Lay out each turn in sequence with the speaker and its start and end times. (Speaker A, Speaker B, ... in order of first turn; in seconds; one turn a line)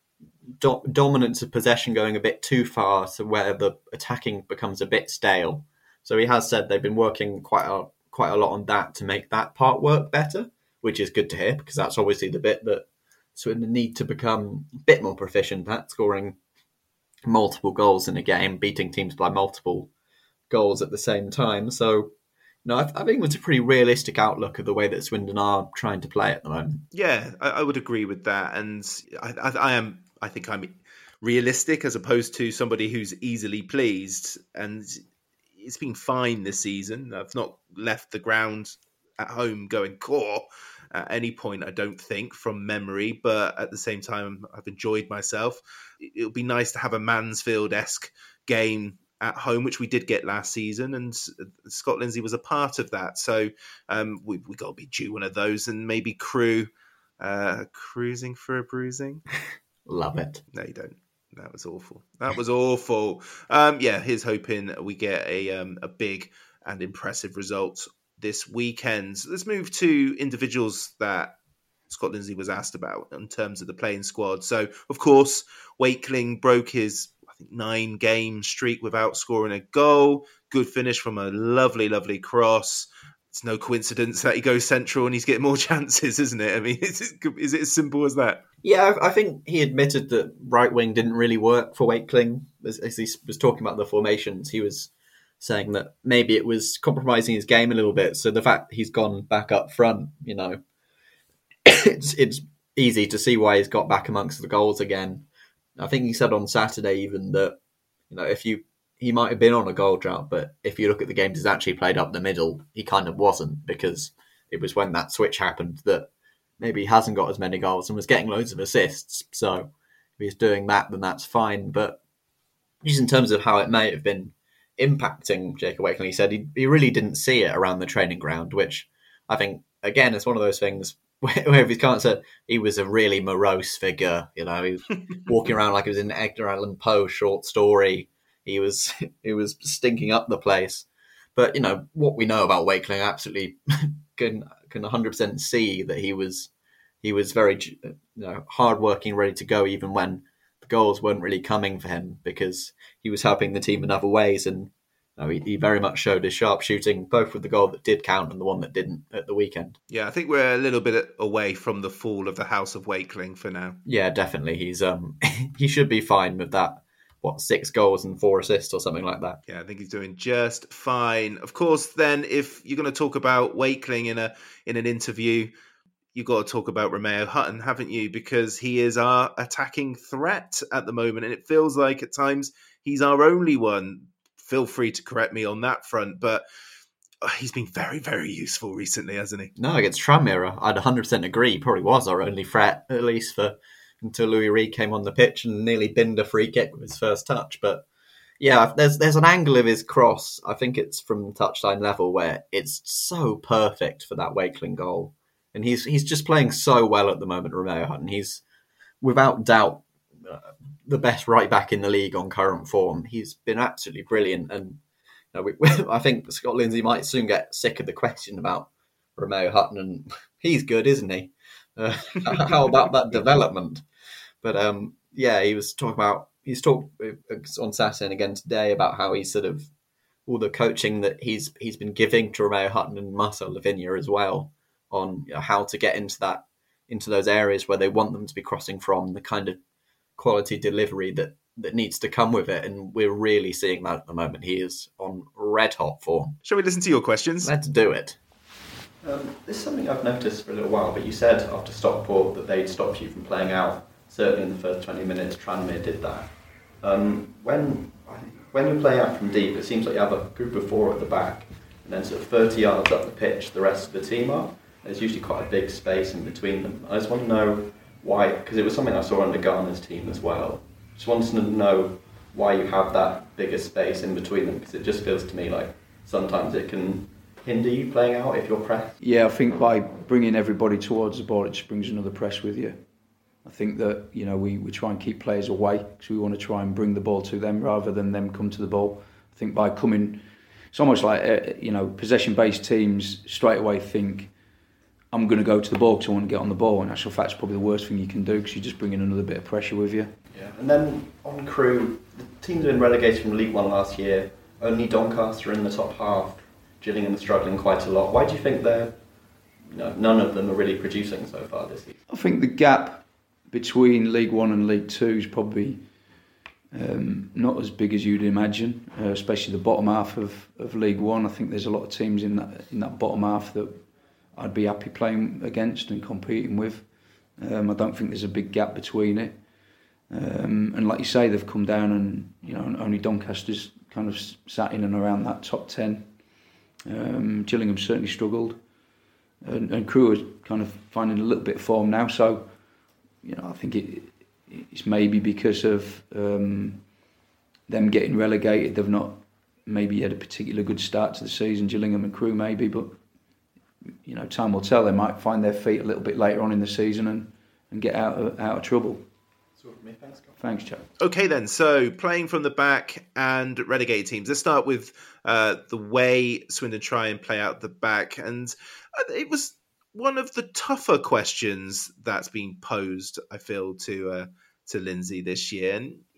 Speaker A: 0.6-16.4
Speaker A: 17.2-19.9
Speaker A: 20.5-22.1
Speaker A: 22.6-26.8
Speaker B: 26.9-35.0
Speaker B: 35.6-56.7
Speaker B: 57.2-59.2
Speaker A: 59.9-60.4
Speaker B: 60.5-71.3
Speaker B: 71.9-88.4
Speaker A: 88.6-100.6
Speaker A: 101.7-107.6
Speaker A: 108.1-122.0
Speaker A: 122.8-146.5
Speaker A: 147.0-159.8
Speaker B: 159.9-163.8
Speaker A: 163.8-169.4
Speaker B: 169.5-175.5
Speaker B: 176.1-186.4
Speaker B: 187.2-189.5
Speaker A: 189.6-197.9
Speaker A: 198.4-208.4
Speaker A: 209.0-214.8
Speaker A: 215.3-223.8
Speaker A: 224.4-229.7
Speaker A: 230.2-239.6
Speaker A: 240.2-246.4
Speaker B: 246.4-247.5
Speaker A: 247.4-248.2
Speaker A: 249.0-279.0
Speaker C: 279.0-282.9
Speaker C: 283.4-294.4
Speaker C: 295.1-300.1
Speaker A: 300.3-309.0
Speaker A: 309.7-312.0
Speaker C: 312.1-316.1
Speaker C: 316.7-329.5
Speaker C: 330.1-336.3
Speaker C: 336.8-338.7
Speaker C: 339.4-342.7
Speaker C: 343.2-347.0
Speaker C: 347.7-353.0
Speaker C: 354.0-359.1
Speaker A: 359.6-360.3
Speaker C: 360.4-360.9
Speaker B: 361.0-376.0